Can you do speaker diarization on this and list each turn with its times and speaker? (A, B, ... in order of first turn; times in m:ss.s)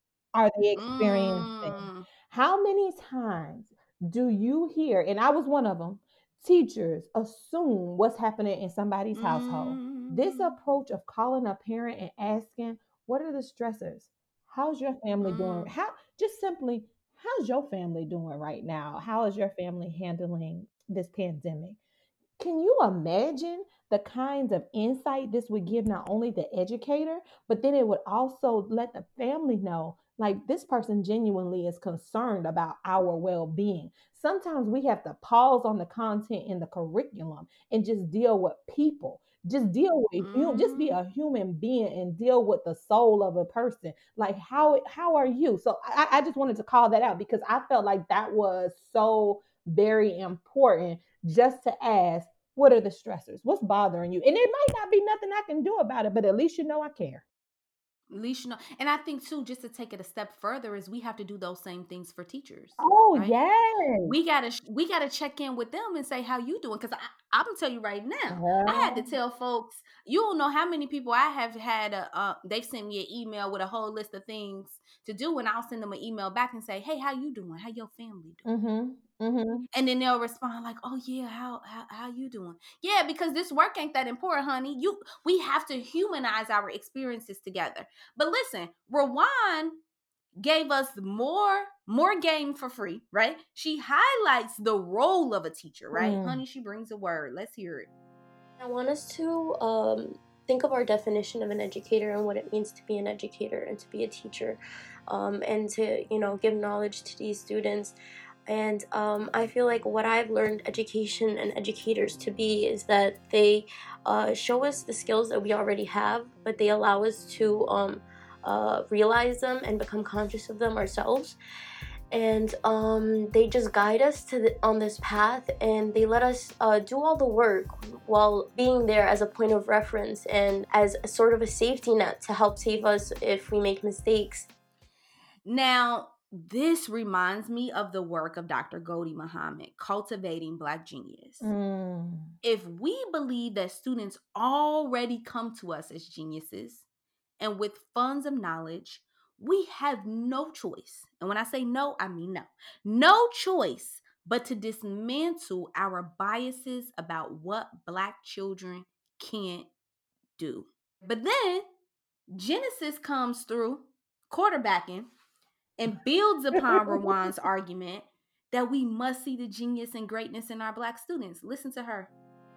0:00.3-0:21.8 A
0:00.8-0:02.1 B
0:09.1-0:10.5 B
0:15.2-0:15.7 B
0:22.4-0:57.2 A
0:40.2-0:41.0 B
0:58.1-1:03.3 B
1:02.8-1:04.1 A
1:04.0-1:18.4 B
1:08.3-1:09.1 A
1:18.4-1:19.6 A
1:19.7-1:29.8 B
1:30.4-1:37.9 B
1:35.9-1:36.4 A
1:38.6-1:47.9 C
1:48.4-2:01.4 C
2:02.1-2:14.5 C
2:15.4-2:21.5 B
2:21.4-2:22.3 A
2:22.4-2:26.8 B
2:27.4-2:39.7 B
2:40.4-2:41.6 B
2:42.3-2:45.1 B
2:45.8-2:52.1 B
2:46.6-2:47.1 A